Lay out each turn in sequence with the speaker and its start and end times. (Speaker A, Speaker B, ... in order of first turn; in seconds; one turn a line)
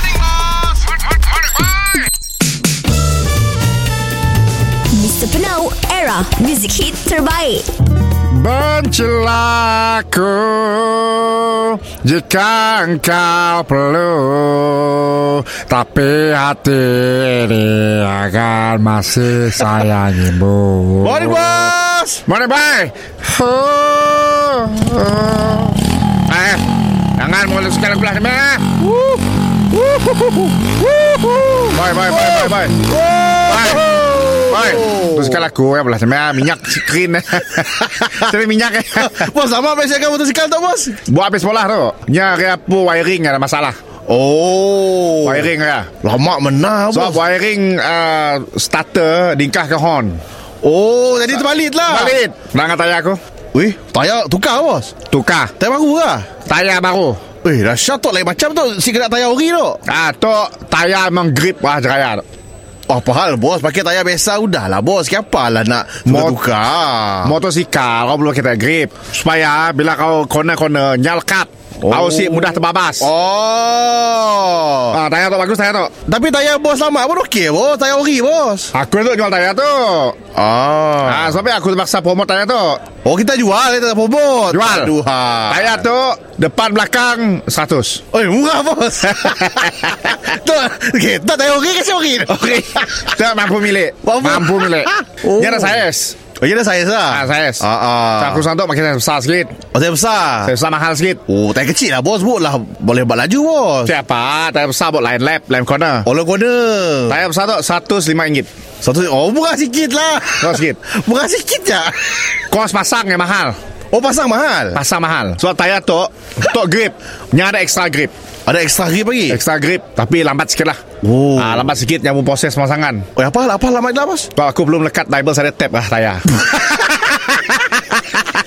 Speaker A: 4.9-7.7
Speaker B: 8.3-21.6
Speaker C: 21.0-22.2
Speaker B: 22.3-26.6
Speaker B: 27.1-28.8
Speaker C: 28.8-29.2
Speaker C: 29.9-35.4
Speaker B: 31.7-32.8
Speaker B: 33.5-39.3
Speaker C: 38.9-41.0
Speaker B: 41.0-43.8
Speaker C: 44.1-47.2
Speaker B: 45.2-45.9
Speaker B: 46.9-50.2
Speaker C: 50.6-52.2
Speaker B: 51.9-53.2
Speaker C: 53.5-54.9
Speaker B: 55.1-55.5
Speaker C: 55.6-56.4
Speaker B: 56.4-57.2
Speaker C: 57.4-59.8
Speaker B: 59.9-62.2
Speaker C: 62.9-67.4
Speaker B: 66.0-66.4
Speaker B: 67.2-73.1
Speaker C: 71.8-75.0
Speaker B: 74.9-75.9
Speaker C: 76.0-78.7
Speaker B: 78.7-80.2
Speaker C: 80.3-81.4
Speaker B: 81.0-82.9
Speaker C: 83.0-85.8
Speaker B: 84.5-84.9
Speaker B: 85.5-88.0
Speaker C: 88.1-93.1
Speaker B: 92.5-96.2
Speaker C: 94.0-98.5
Speaker B: 97.1-97.6
Speaker B: 98.2-99.6
Speaker C: 99.6-100.5
Speaker B: 100.4-101.2
Speaker C: 101.3-103.9
Speaker B: 103.8-106.1
Speaker C: 106.0-107.2
Speaker B: 107.1-108.5
Speaker C: 108.8-112.3
Speaker B: 110.4-110.8
Speaker B: 112.5-113.6
Speaker C: 113.9-114.8
Speaker B: 114.7-118.1
Speaker C: 118.5-119.4
Speaker B: 119.3-120.8
Speaker C: 121.0-121.7
Speaker B: 121.4-123.0
Speaker C: 123.2-124.3
Speaker B: 124.3-128.0